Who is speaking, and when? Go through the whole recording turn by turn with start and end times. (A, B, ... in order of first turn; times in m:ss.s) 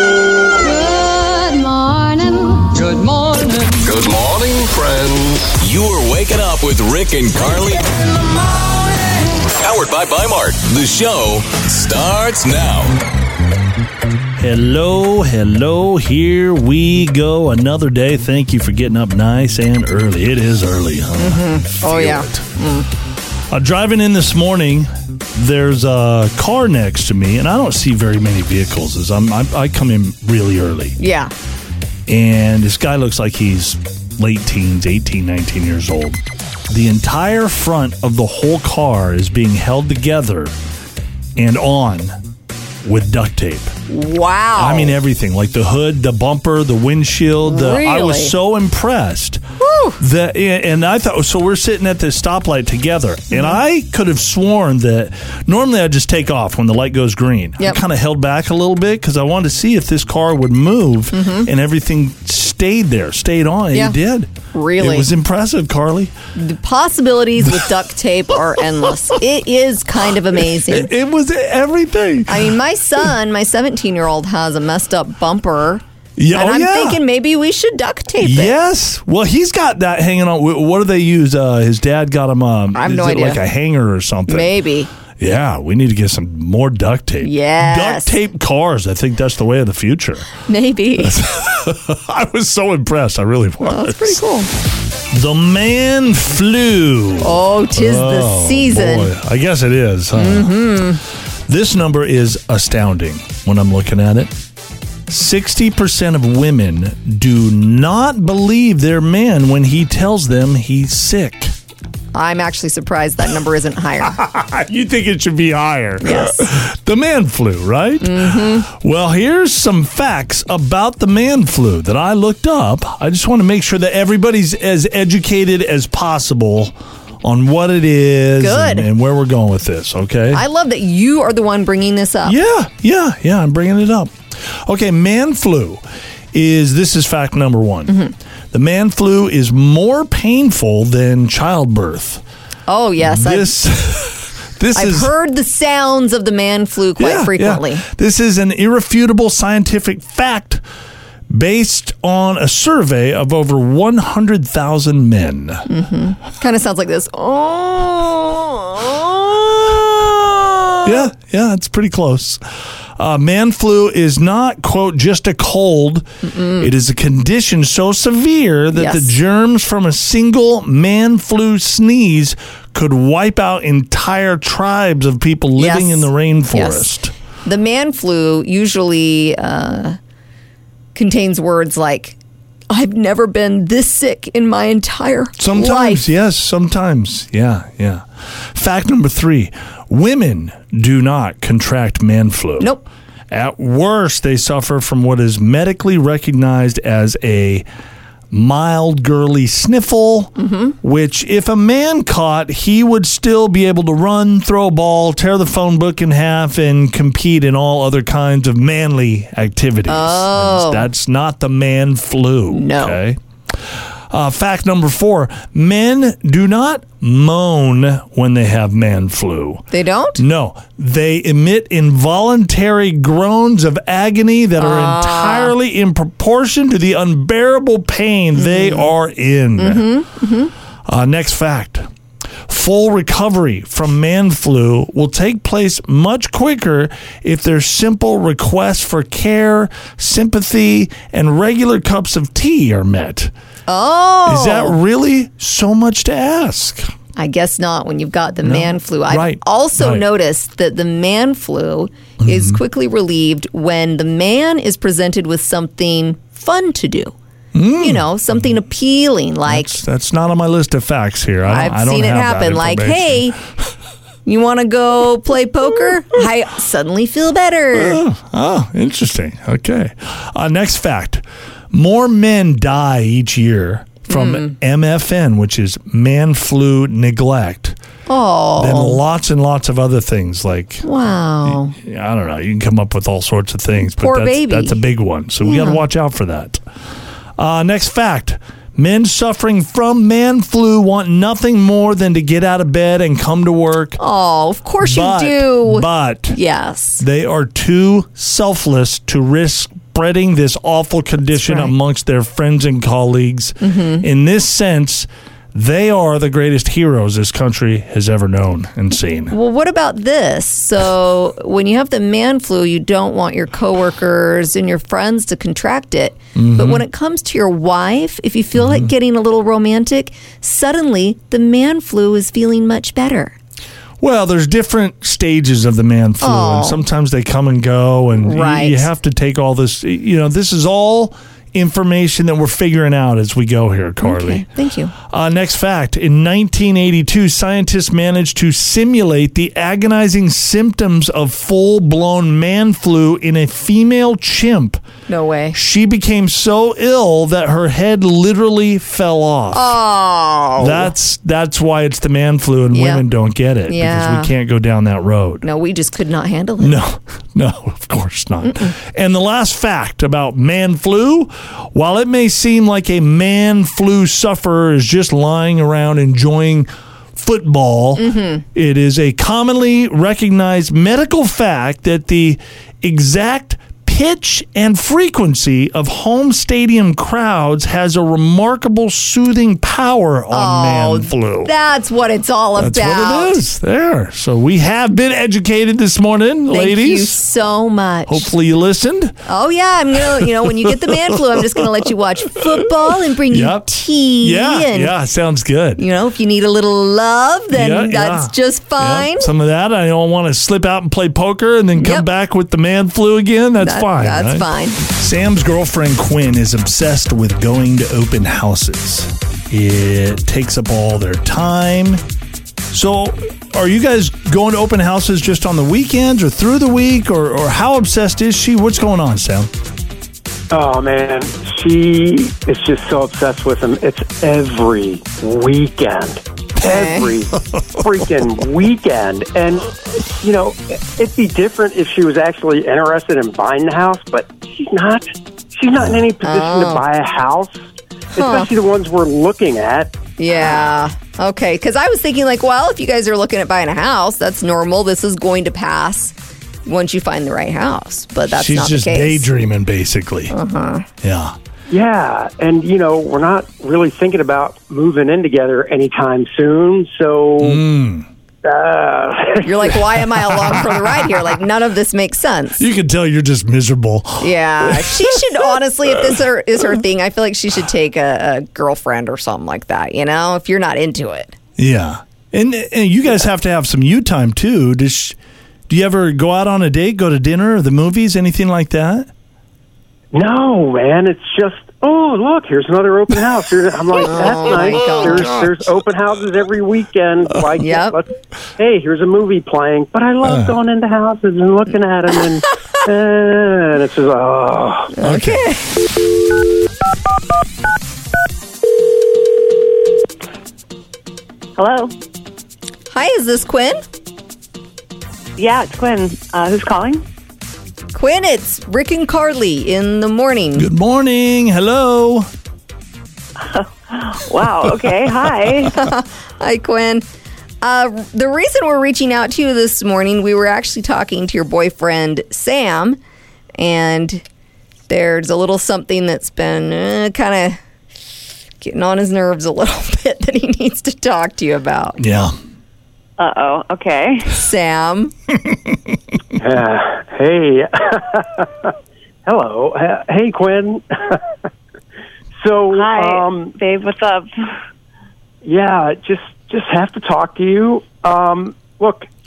0:00.6-0:03.8 A
0:03.8-0:08.4 B
0:09.5-0:13.0 B
0:14.4-0:22.5 C
0:21.2-0:22.9 D
0:23.5-0:31.0 C
0:31.0-0:31.3 D
0:32.1-0:40.5 C
0:41.4-0:42.2 C
0:42.8-0:43.7 C
0:43.9-0:45.0 D
0:44.6-0:49.4 C
0:47.4-0:48.3 D
0:49.6-0:50.0 D
0:50.0-1:06.1 C
0:53.3-0:53.6 D
1:01.1-1:01.5 D
1:04.5-1:05.1 D
1:06.3-1:10.9 D
1:10.6-1:12.5 C
1:12.3-1:18.5 D
1:16.2-1:17.0 C
1:18.2-1:24.5 C
1:22.7-1:23.4 D
1:24.3-1:24.9 D
1:25.1-1:30.3 C
1:27.2-1:28.1 D
1:30.4-1:31.2 D
1:31.0-1:34.2 C
1:33.6-1:34.5 D
1:35.1-1:40.9 C
1:37.2-1:39.1 D
1:40.1-1:41.0 D
1:41.5-1:44.3 C
1:45.1-1:51.5 C
1:52.1-1:54.2 D
1:54.0-2:10.4 C
1:56.0-1:56.4 D
1:58.0-1:58.7 D
2:08.4-2:08.9 D
2:10.3-2:12.3 D
2:12.2-2:18.0 C
2:17.9-2:18.1 D
2:18.5-2:22.2 C
2:22.7-2:23.6 D
2:23.0-2:25.1 C
2:24.7-2:27.8 D
2:27.0-2:30.6 C
2:31.3-2:35.6 C
2:35.7-2:41.1 D
2:40.8-2:42.4 C
2:43.0-2:46.1 C
2:46.2-2:46.7 D
2:46.6-2:57.1 C
2:48.7-2:49.1 D
2:55.6-2:56.9 D
2:57.4-3:00.0 D
3:00.9-3:02.2 D
3:02.7-3:06.0 D
3:05.4-3:12.7 C
3:12.6-3:12.8 D
3:13.3-3:17.6 C
3:18.3-3:39.6 C
3:20.4-3:20.8 D
3:29.9-3:30.9 D
3:32.5-3:33.0 D
3:39.7-3:40.2 D
3:40.2-3:49.9 C
3:44.6-3:45.5 D
3:48.3-3:48.9 D
3:49.6-3:50.5 D
3:50.8-3:51.9 C
3:52.5-4:03.3 C
4:03.7-4:04.8 D
4:04.2-4:06.9 C
4:07.2-4:17.1 D
4:08.4-4:10.1 C
4:12.2-4:12.6 C
4:17.5-4:18.3 C
4:17.8-4:19.8 D
4:19.4-4:23.4 C
4:21.4-4:23.4 D
4:24.2-4:28.0 D
4:27.7-4:37.8 C
4:34.1-4:34.5 D
4:38.1-4:39.0 D
4:38.6-4:40.8 C
4:40.8-4:41.8 D
4:41.4-4:46.6 C
4:44.0-4:44.8 D
4:45.4-4:45.8 D
4:47.4-4:54.0 C
4:54.0-4:57.0 D
4:54.8-4:56.4 C
4:57.0-5:09.3 C
5:01.4-5:01.7 D
5:03.6-5:04.0 D
5:09.3-5:23.4 D
5:16.3-5:16.8 C
5:18.5-5:18.9 C
5:24.0-5:34.5 C
5:26.2-5:26.8 D
5:28.2-5:28.9 D
5:34.0-5:34.9 D
5:35.0-5:44.8 C
5:45.1-5:45.6 D
5:45.5-5:49.8 C
5:49.5-5:50.9 D
5:50.6-5:55.4 C
5:52.7-5:53.0 D
5:53.7-5:54.3 D
5:55.4-5:56.8 D
5:56.6-6:21.5 C
5:58.4-5:58.7 D
6:08.0-6:08.4 D
6:20.3-6:23.4 D
6:22.6-6:27.2 C
6:26.5-6:28.3 D
6:28.1-6:29.2 C
6:29.2-6:34.9 D
6:30.0-6:31.6 C
6:33.3-6:35.8 C
6:35.8-6:39.3 D
6:37.5-6:52.0 C
6:41.8-6:42.1 D
6:43.6-6:44.8 D
6:52.7-6:59.5 C
7:00.5-7:17.6 E
7:06.6-7:07.1 D
7:07.5-7:07.8 C
7:16.2-7:16.8 D
7:18.1-7:20.0 E
7:18.2-7:18.5 D
7:20.2-7:26.1 D
7:26.6-7:29.3 D
7:28.3-7:30.3 C
7:30.3-7:30.9 D
7:31.0-7:31.4 C
7:31.7-7:37.6 E
7:37.4-7:38.1 C
7:38.4-7:39.9 E
7:39.4-7:42.6 D
7:40.4-7:41.2 C
7:42.6-7:45.4 C
7:44.2-7:51.4 D
7:51.6-7:55.2 C
7:55.7-7:59.1 C
8:00.1-8:14.9 E
8:04.0-8:05.3 D
8:07.6-8:08.0 D
8:10.2-8:10.6 C
8:14.9-8:15.7 D
8:15.0-8:15.4 C
8:21.6-8:21.9 F
8:22.9-8:23.8 D
8:25.4-8:27.0 F
8:27.9-8:30.7 D
8:30.6-8:32.3 C
8:33.4-8:35.8 F
8:35.7-8:37.0 D
8:37.6-8:43.0 D
8:43.6-8:44.2 D
8:44.9-8:47.6 D
8:48.6-8:52.0 D
8:52.0-8:52.3 C
8:53.2-8:54.3 F
8:54.3-8:55.1 D
8:56.4-8:58.7 E
8:59.2-9:01.2 E
9:02.4-9:03.5 E
9:02.7-9:04.3 F
9:05.4-9:09.0 E